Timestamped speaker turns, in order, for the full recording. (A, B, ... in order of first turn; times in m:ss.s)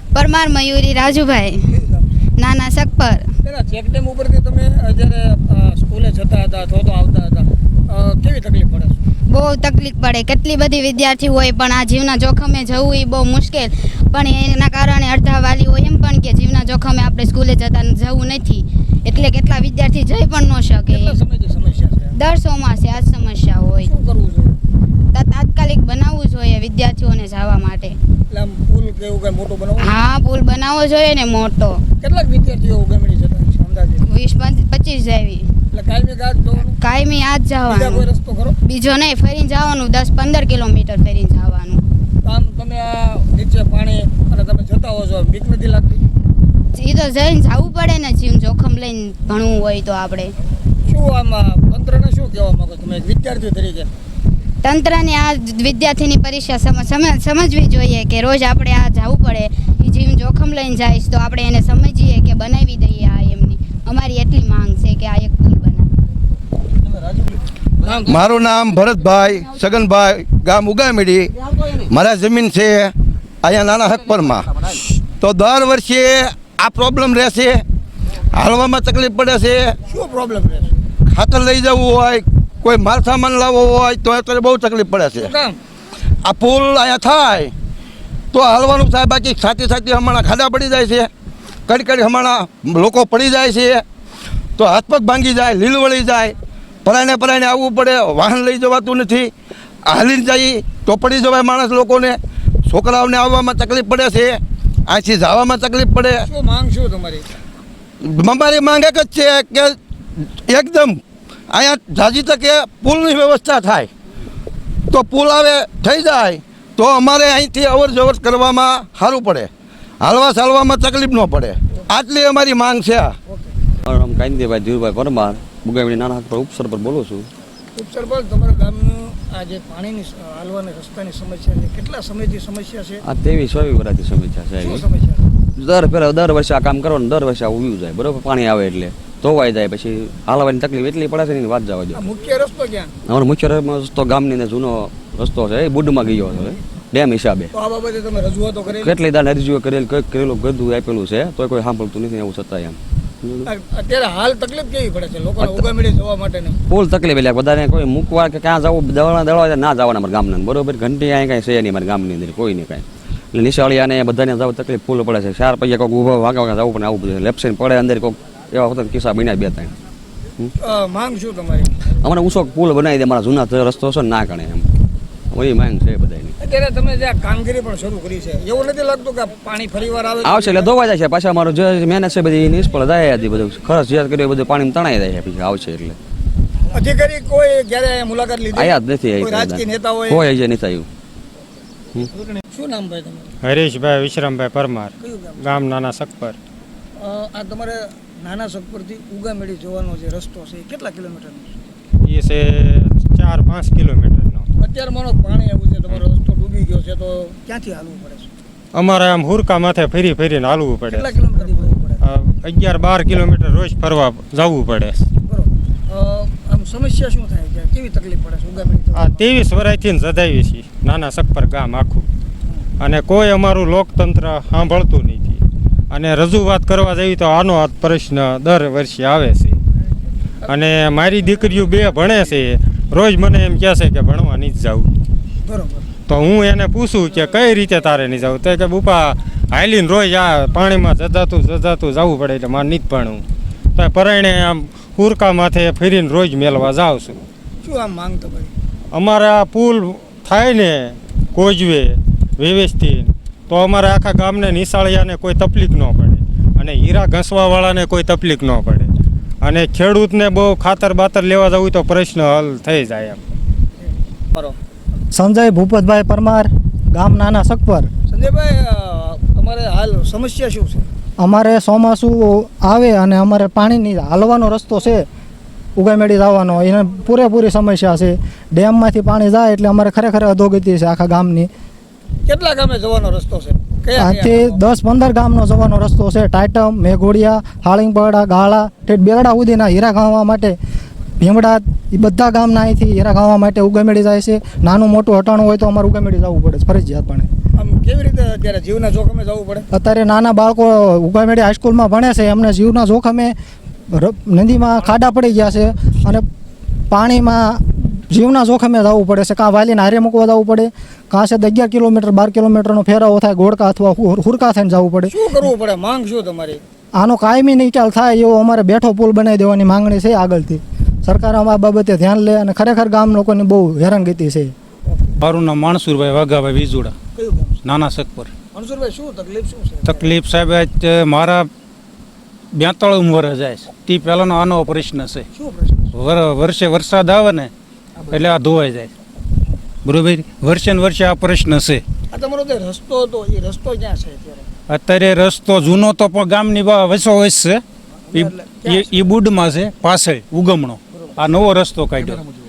0:00.1-0:01.7 A
0:01.7-0:02.1 B
0:02.4-0:03.3 A
0:03.4-0:09.0 B
0:09.3-0:21.2 A
0:20.9-0:22.1 B
0:22.2-0:23.9 A
0:23.9-0:24.6 B
0:25.1-0:28.0 A
0:28.3-0:30.0 B
0:29.8-0:31.8 A
0:32.0-0:34.0 B
0:34.1-0:35.5 A
0:35.7-0:36.8 B
0:36.7-0:38.1 A
0:37.7-0:38.6 B
0:38.6-0:41.8 A
0:42.2-0:46.0 B
0:46.8-0:50.4 A
0:50.9-0:53.9 B
0:54.6-1:06.0 A
1:08.0-1:17.6 C
1:18.3-1:19.8 C
1:19.9-1:20.7 B
1:21.1-1:25.3 C
1:25.2-1:25.6 B
1:26.2-1:27.5 C
1:28.3-1:31.1 C
1:31.7-1:33.8 C
1:34.6-1:36.4 C
1:36.9-1:39.3 C
1:39.9-1:46.3 C
1:46.3-1:47.2 B
1:48.0-1:49.8 C
1:50.5-1:51.0 C
1:51.5-1:53.9 C
1:54.9-1:59.5 C
2:00.0-2:03.2 C
2:03.3-2:03.6 B
2:03.8-2:07.3 D
2:07.8-2:13.0 B
2:13.0-2:14.9 D
2:14.6-2:15.2 B
2:15.6-2:22.1 D
2:22.0-2:22.9 B
2:23.0-2:27.5 D
2:27.6-2:28.9 B
2:28.6-2:33.5 D
2:33.5-2:36.6 B
2:35.4-2:35.7 D
2:36.7-2:49.7 D
2:50.6-2:51.8 B
2:52.0-2:54.7 D
2:55.3-2:56.3 D
2:56.4-3:00.7 B
3:00.2-3:06.0 D
3:06.7-3:10.2 B
3:08.5-3:10.9 D
3:12.5-3:13.3 B
3:13.5-3:14.9 E
3:15.0-3:15.7 B
3:15.5-3:16.4 E
3:17.0-3:21.6 B
3:22.1-3:24.4 E
3:24.6-3:28.3 B
3:28.8-3:31.0 E
3:30.8-3:32.0 B
3:32.1-3:35.0 E
3:35.2-3:39.2 B
3:39.0-3:42.0 E
3:42.8-3:45.4 E
3:45.9-3:49.5 E
3:50.4-3:51.7 B
3:50.6-3:54.9 E
3:55.4-3:55.9 B
3:56.1-4:03.2 E
4:03.8-4:07.2 E
4:07.6-4:08.5 B
4:09.0-4:18.9 E
4:19.4-4:23.2 E
4:25.1-4:27.9 F
4:28.1-4:30.9 B
4:31.2-4:35.1 F
4:35.8-4:41.5 F
4:42.3-4:44.6 B
4:44.0-4:50.6 F
4:51.2-4:57.3 F
4:57.6-4:59.7 B
4:59.7-5:03.4 F
5:03.9-5:06.3 F
5:06.9-5:15.2 F
5:15.1-5:16.6 B
5:17.0-5:24.5 F
5:24.9-5:25.2 B
5:25.2-5:26.9 G
5:27.2-5:27.6 B
5:27.6-5:28.3 G
5:28.5-5:30.1 B
5:29.8-5:31.5 G
5:32.5-5:35.3 G
5:35.3-5:35.9 B
5:35.9-5:37.5 G
5:38.1-5:38.9 G
5:39.8-5:41.8 G
5:42.1-5:44.5 B
5:44.7-5:52.2 G
5:48.1-5:49.1 B
5:50.9-5:51.2 B